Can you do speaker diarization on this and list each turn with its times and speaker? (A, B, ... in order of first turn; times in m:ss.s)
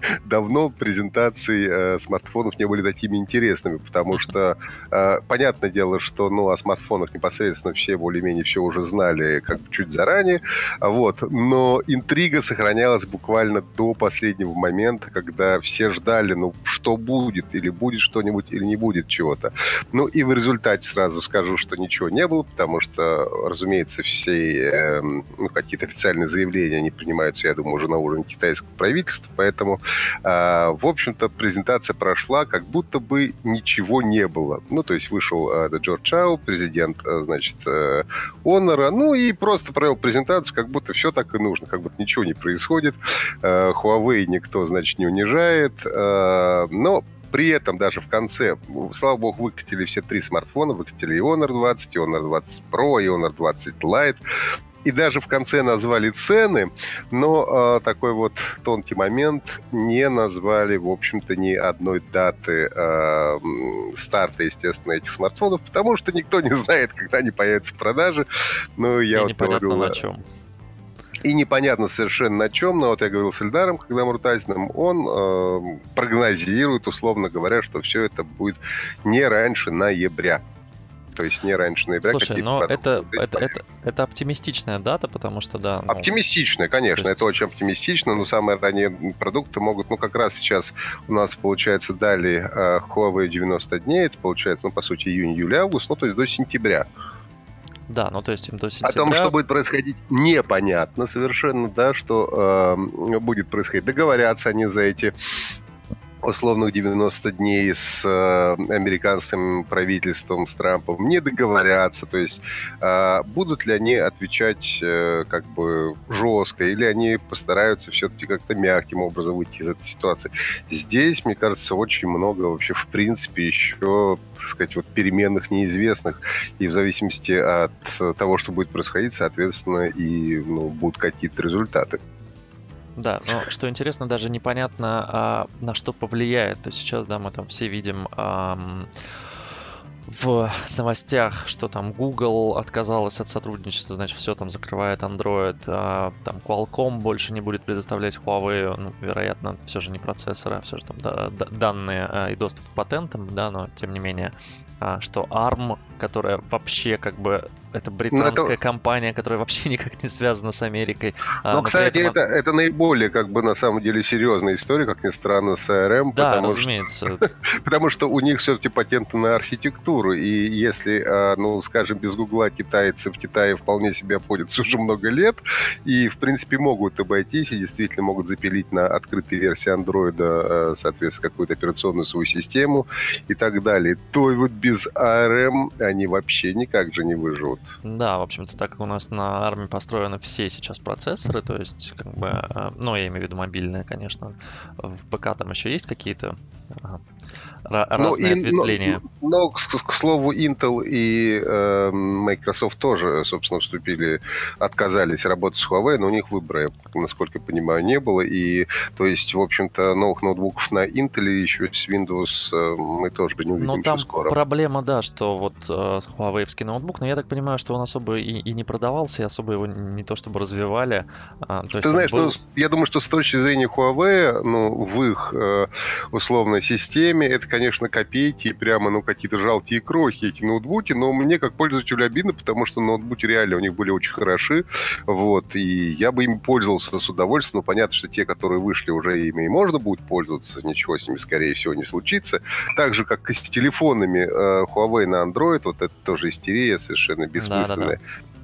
0:00.2-0:54.2 A
0:54.8-1:08.2 A
1:08.8-1:10.0 A
1:09.1-1:10.2 B
1:11.2-1:20.4 A
1:21.1-1:23.6 A
1:22.0-1:26.1 B
1:25.9-1:36.9 A
1:27.0-1:27.2 B
1:37.9-1:39.3 B
1:38.8-1:45.1 A
1:46.2-2:12.0 A
2:13.0-2:42.2 B
2:38.1-2:38.5 A
2:41.5-3:07.7 A
2:46.1-2:47.2 B
3:07.8-3:17.0 B
3:17.6-3:19.0 B
3:18.0-3:34.4 A
3:33.6-3:42.4 B
3:41.8-4:08.0 A
4:07.4-4:08.0 B